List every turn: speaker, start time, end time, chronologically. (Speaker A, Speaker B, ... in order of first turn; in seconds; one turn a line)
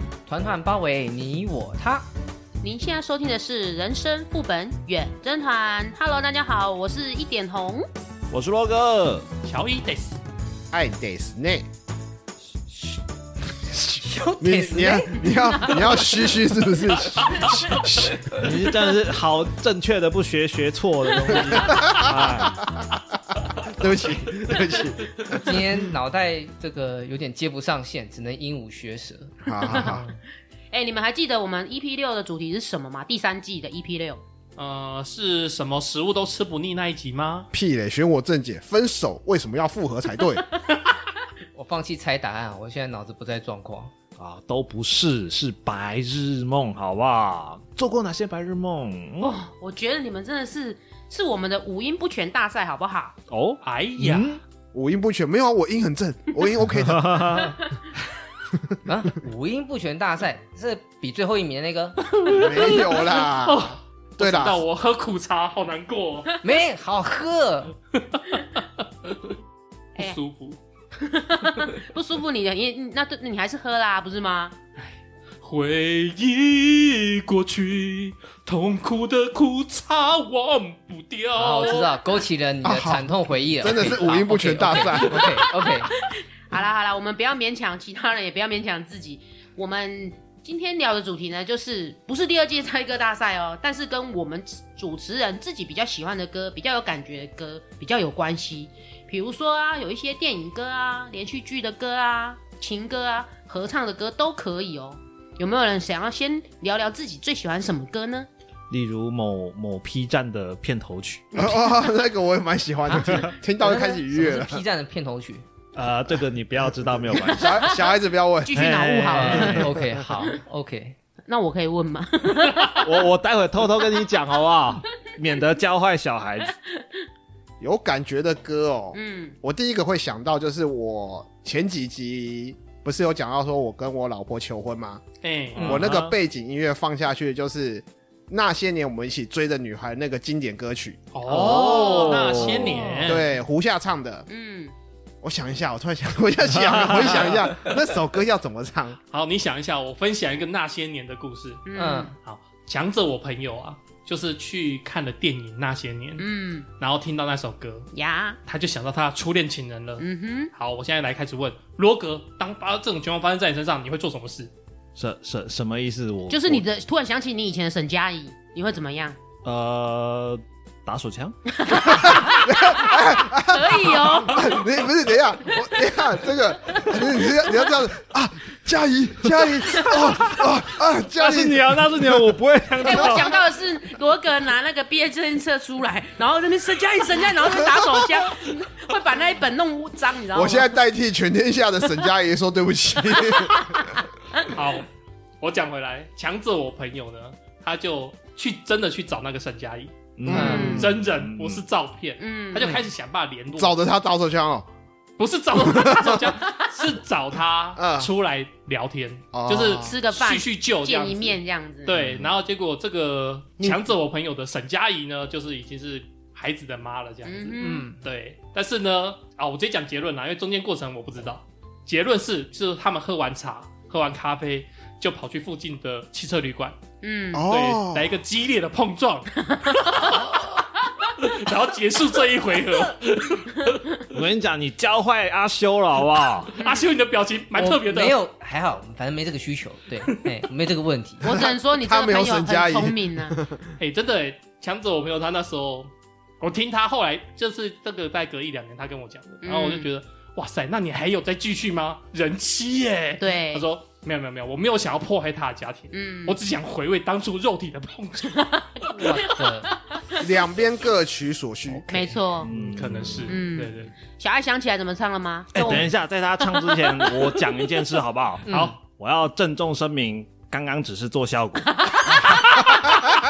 Speaker A: 0.3-2.1
Speaker B: 2.6-7.9
Speaker C: 8.3-9.3
Speaker D: 9.5-10.2
Speaker E: 10.7-11.7
Speaker A: 13.8-15.3
Speaker E: 14.4-18.3
Speaker C: 18.3-22.6
Speaker B: 21.3-21.8
Speaker E: 21.4-22.9
Speaker E: 23.6-25.2
Speaker A: 25.3-29.4
Speaker E: 29.4-30.0
Speaker B: 29.6-30.0
Speaker B: 30.7-34.2
Speaker D: 34.6-37.5
Speaker E: 37.5-40.5
Speaker A: 41.5-43.9
Speaker C: 44.2-49.4
Speaker B: 49.2-53.2
Speaker C: 53.3-54.4
Speaker D: 53.6-54.4
Speaker E: 54.7-57.5
Speaker C: 56.8-57.6
Speaker A: 58.9-62.0
Speaker D: 62.1-66.3
Speaker E: 62.3-64.6
Speaker A: 66.4-67.7
Speaker D: 68.2-68.6
Speaker D: 70.0-70.6
Speaker B: 71.0-74.6
Speaker D: 74.8-81.9
Speaker A: 81.3-85.9
Speaker B: 81.6-81.9
Speaker E: 82.6-85.4
Speaker B: 85.9-108.3
Speaker C: 108.7-111.3
Speaker E: 111.3-114.6
Speaker A: 113.6-115.4
Speaker C: 115.8-117.8
Speaker E: 117.3-118.7
Speaker B: 118.5-119.8
Speaker C: 118.5-119.7
Speaker A: 119.1-121.0
Speaker B: 121.3-123.0
Speaker C: 122.8-126.5
Speaker E: 127.6-135.0
Speaker B: 128.9-129.4
Speaker D: 135.2-136.0
Speaker A: 135.6-135.9
Speaker E: 135.6-144.3
Speaker D: 141.1-143.3
Speaker C: 141.3-143.0
Speaker B: 141.7-142.3
Speaker A: 142.8-143.1
Speaker B: 144.3-144.7
Speaker E: 145.2-149.0
Speaker C: 146.6-147.3
Speaker D: 149.1-151.7
Speaker B: 151.7-152.1
Speaker A: 151.8-152.1
Speaker D: 152.2-156.3
Speaker B: 156.2-156.7
Speaker D: 156.8-157.9
Speaker B: 157.9-158.4
Speaker D: 158.5-164.5
Speaker B: 160.0-160.5
Speaker C: 165.0-166.6
Speaker B: 166.3-169.2
Speaker C: 169.4-171.3
Speaker B: 171.6-174.7
Speaker E: 171.8-182.3
Speaker B: 176.7-177.6
Speaker C: 181.2-183.4
Speaker B: 182.8-190.8
Speaker E: 190.3-193.9
Speaker D: 194.5-194.9
Speaker D: 195.4-203.8
Speaker C: 200.2-201.6
Speaker E: 200.3-200.9
Speaker A: 200.3-200.7
Speaker B: 200.3-200.9
Speaker B: 202.2-202.8
Speaker E: 203.5-204.7
Speaker D: 205.2-226.8
Speaker E: 205.6-206.3
Speaker E: 207.8-208.1
Speaker E: 209.3-210.0
Speaker B: 209.8-212.0
Speaker B: 217.2-217.9
Speaker A: 217.6-217.9
Speaker B: 227.0-227.5
Speaker E: 227.3-228.2
Speaker D: 227.4-230.5
Speaker B: 229.7-230.2
Speaker D: 231.1-233.8
Speaker C: 234.1-236.6
Speaker D: 236.6-238.2
Speaker A: 237.5-241.3
Speaker B: 241.2-243.4
Speaker E: 241.2-243.7
Speaker D: 243.8-259.4
Speaker B: 249.4-249.9
Speaker B: 253.2-253.7
Speaker B: 255.9-256.4
Speaker B: 258.4-259.4
Speaker A: 259.3-259.7
Speaker E: 260.2-262.1
Speaker A: 261.7-262.1
Speaker B: 261.9-262.5
Speaker C: 262.4-263.4
Speaker D: 262.6-263.9
Speaker B: 263.3-267.3
Speaker C: 265.5-272.8
Speaker A: 268.5-268.8
Speaker D: 268.5-268.8
Speaker B: 271.9-272.9